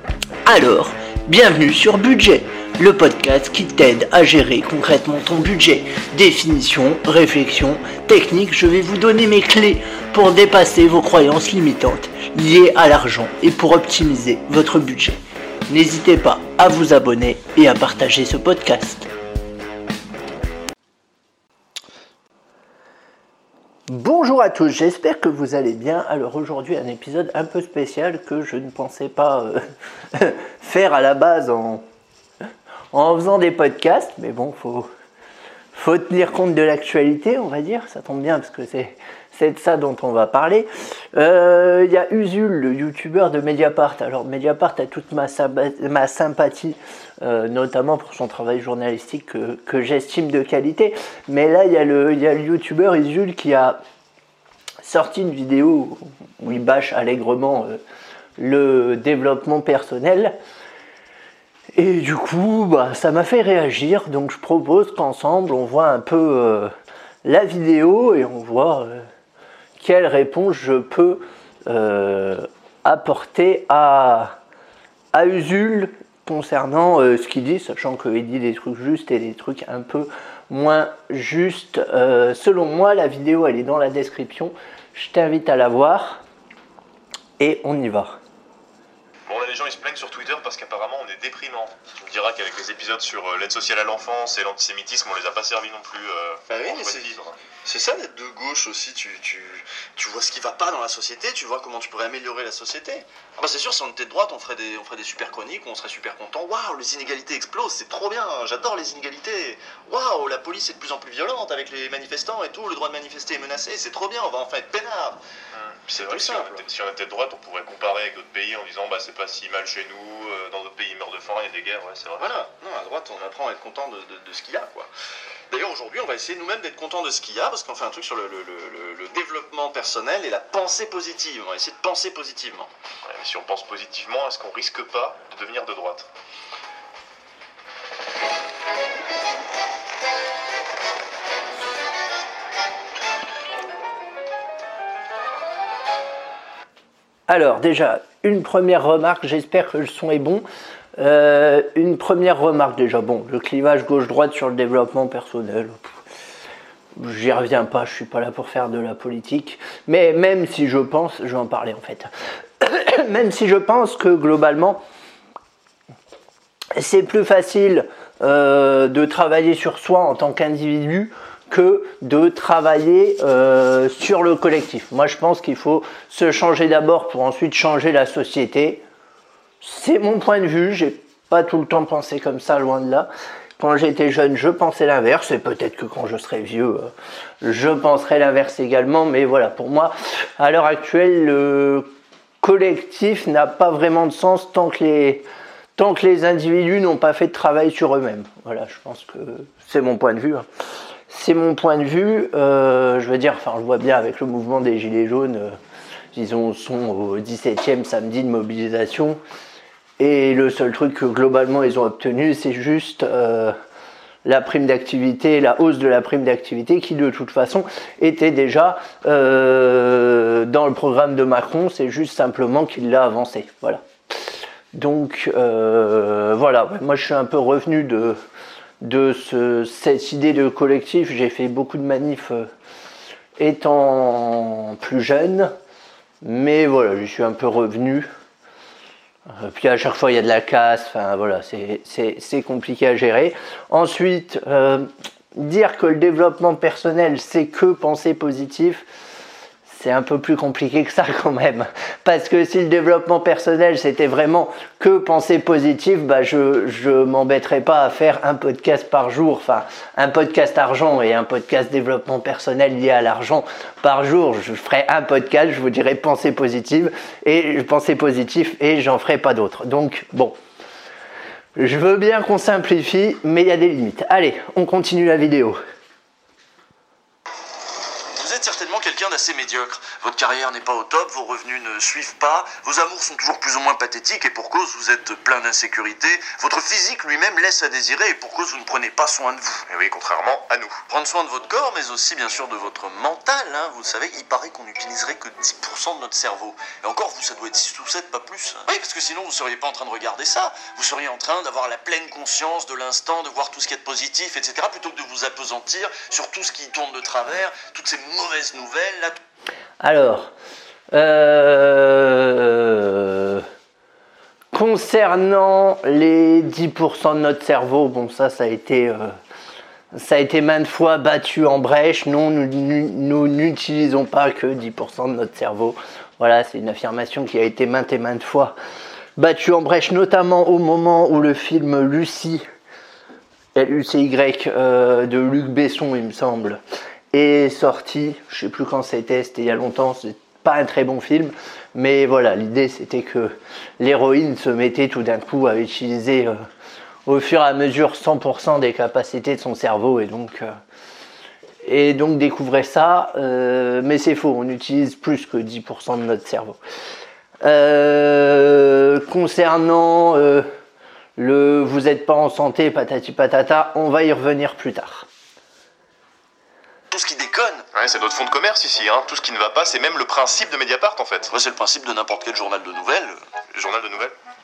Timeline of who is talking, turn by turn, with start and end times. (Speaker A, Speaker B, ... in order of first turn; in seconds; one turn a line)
Speaker A: 0.5-19.1
Speaker A: 23.9-29.6
Speaker A: 30.1-31.8
Speaker A: 32.9-34.9
Speaker A: 35.7-53.8
Speaker A: 54.8-57.8
Speaker A: 58.4-60.4
Speaker A: 61.8-66.7
Speaker A: 67.2-69.0
Speaker A: 69.8-74.4
Speaker A: 75.1-86.2
Speaker A: 87.4-88.2
Speaker B: 89.3-97.4
Speaker C: 96.5-97.1
Speaker C: 97.6-115.2
Speaker B: 115.6-122.3
Speaker C: 115.9-116.6
Speaker C: 122.2-124.9
Speaker C: 125.5-132.7
Speaker B: 133.1-136.1
Speaker A: 147.3-150.4
Speaker A: 151.0-155.9
Speaker A: 157.0-162.1
Speaker A: 162.6-164.8
Speaker A: 166.8-178.8
Speaker A: 179.6-191.9
Speaker A: 192.4-200.5
Speaker A: 201.1-205.6
Speaker A: 206.1-209.2
Speaker A: 210.0-213.6
Speaker A: 214.2-223.8
Speaker A: 224.7-228.2
Speaker A: 228.8-232.5
Speaker A: 233.4-235.5
Speaker A: 236.2-238.1
Speaker A: 239.4-248.8
Speaker A: 249.7-270.4
Speaker A: 271.6-275.6
Speaker C: 278.1-289.7
Speaker B: 289.7-290.8
Speaker C: 290.9-309.2
Speaker A: 309.8-310.3
Speaker A: 310.9-313.5
Speaker A: 314.5-319.1
Speaker A: 319.9-328.6
Speaker A: 329.2-332.4
Speaker A: 333.6-336.6
Speaker A: 337.1-346.4
Speaker A: 347.1-350.5
Speaker A: 351.6-356.6
Speaker A: 357.4-360.5
Speaker A: 361.2-365.1
Speaker C: 366.9-367.6
Speaker B: 367.7-371.3
Speaker C: 371.3-373.2
Speaker B: 373.5-374.1